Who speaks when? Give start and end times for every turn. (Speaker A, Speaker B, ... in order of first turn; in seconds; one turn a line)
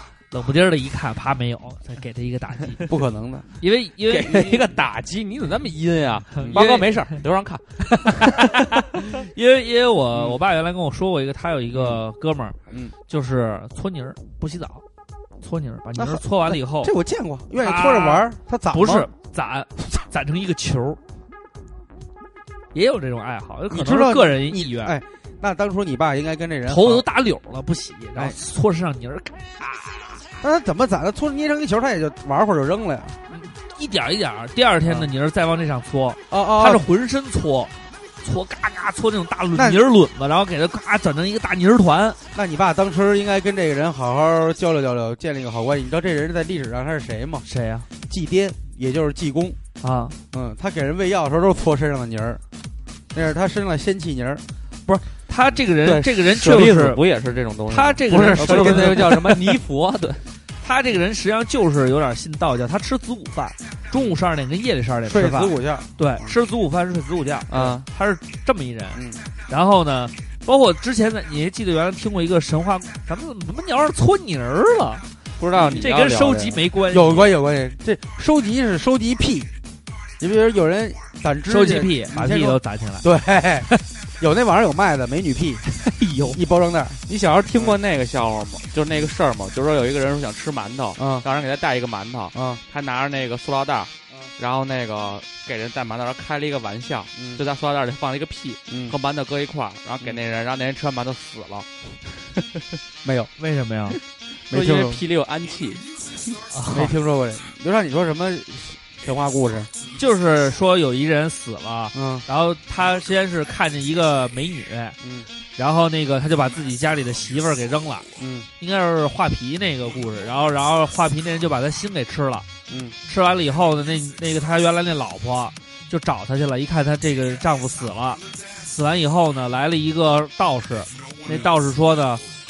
Speaker A: 0.3-2.9
Speaker B: 2.9-3.5
Speaker A: 3.6-4.7
Speaker C: 4.1-8.6
Speaker A: 6.4-7.1
Speaker A: 7.9-12.6
Speaker A: 13.1-14.8
Speaker A: 15.4-16.9
Speaker B: 16.0-19.1
Speaker A: 17.6-21.0
Speaker A: 22.7-24.9
Speaker B: 23.7-27.1
Speaker A: 26.7-29.8
Speaker B: 30.4-33.2
Speaker A: 33.3-42.2
Speaker B: 36.3-36.8
Speaker B: 39.5-39.8
Speaker B: 42.3-47.5
Speaker A: 47.5-47.9
Speaker B: 48.1-49.6
Speaker A: 49.8-50.2
Speaker B: 50.3-52.4
Speaker B: 53.1-54.4
Speaker A: 54.9-57.0
Speaker C: 55.8-60.2
Speaker A: 57.7-59.3
Speaker B: 58.1-59.4
Speaker A: 60.6-75.0
Speaker B: 65.1-66.3
Speaker C: 67.5-67.9
Speaker B: 69.0-69.2
Speaker C: 75.4-76.6
Speaker A: 75.6-77.3
Speaker B: 76.9-79.5
Speaker B: 80.2-83.7
Speaker A: 81.5-83.0
Speaker B: 84.2-85.6
Speaker A: 85.7-86.4
Speaker B: 86.3-87.0
Speaker C: 87.1-101.7
Speaker B: 91.0-91.3
Speaker B: 92.3-92.6
Speaker B: 97.2-97.4
Speaker B: 98.7-99.0
Speaker B: 103.0-103.3
Speaker A: 103.4-104.0
Speaker B: 104.5-105.0
Speaker C: 104.5-105.8
Speaker A: 106.5-106.9
Speaker B: 106.7-109.7
Speaker A: 110.0-115.0
Speaker B: 111.9-112.2
Speaker B: 115.0-115.3
Speaker A: 115.6-118.1
Speaker B: 118.2-118.5
Speaker A: 118.6-122.5
Speaker B: 122.7-123.0
Speaker A: 123.1-132.2